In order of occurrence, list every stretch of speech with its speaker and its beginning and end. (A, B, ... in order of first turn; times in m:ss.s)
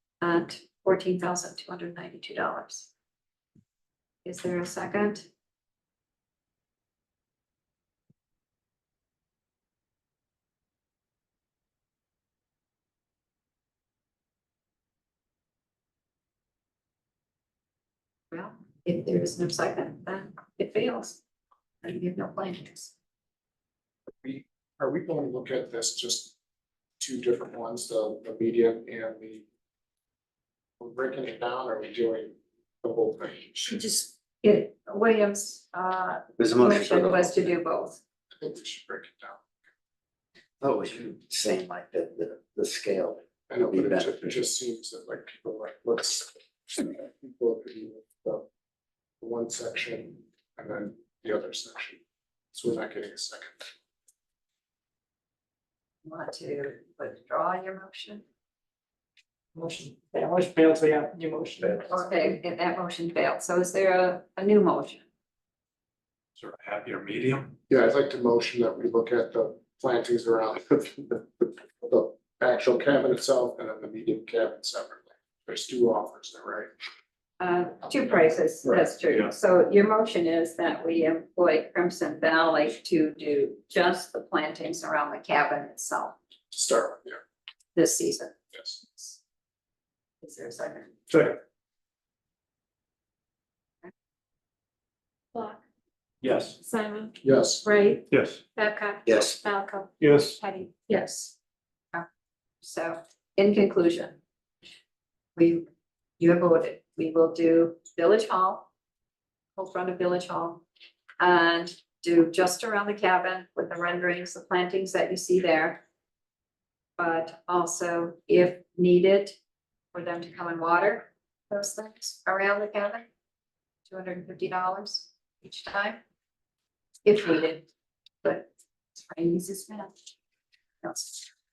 0:00.2-0:02.9 A
0:04.2-0:05.2 A
0:18.3-0:21.2 A
0:21.8-0:22.9 A
0:24.2-0:26.3 B
0:27.0-0:29.4 B
0:30.8-0:34.1 B
0:34.4-0:38.0 A
0:36.4-0:37.5 C
0:38.4-0:39.4 B
0:40.6-0:44.5 C
0:43.5-0:48.4 B
0:49.2-0:52.0 B
0:52.5-0:53.7 B
0:56.0-0:58.2 A
0:59.5-1:01.9 D
1:01.8-1:05.0 A
1:06.4-1:07.6 E
1:07.7-1:16.7 B
1:17.4-1:26.1 A
1:18.6-1:19.0 B
1:26.5-1:27.2 B
1:27.8-1:29.2 A
1:30.2-1:31.0 A
1:31.1-1:31.4 E
1:35.3-1:35.6 F
1:36.2-1:36.6 E
1:36.6-1:41.3 F
1:37.2-1:37.6 B
1:38.1-1:38.4 E
1:39.0-1:39.4 C
1:40.0-1:40.4 E
1:42.6-1:44.2 A
1:45.4-1:45.6 A
1:46.2-1:48.7 A
1:49.6-1:50.6 A
1:51.2-1:55.8 A
1:57.0-1:59.4 A
1:59.9-2:03.0 A
2:03.9-2:06.0 A
2:07.0-2:07.7 A
2:08.2-2:09.9 A
2:10.8-2:11.3 A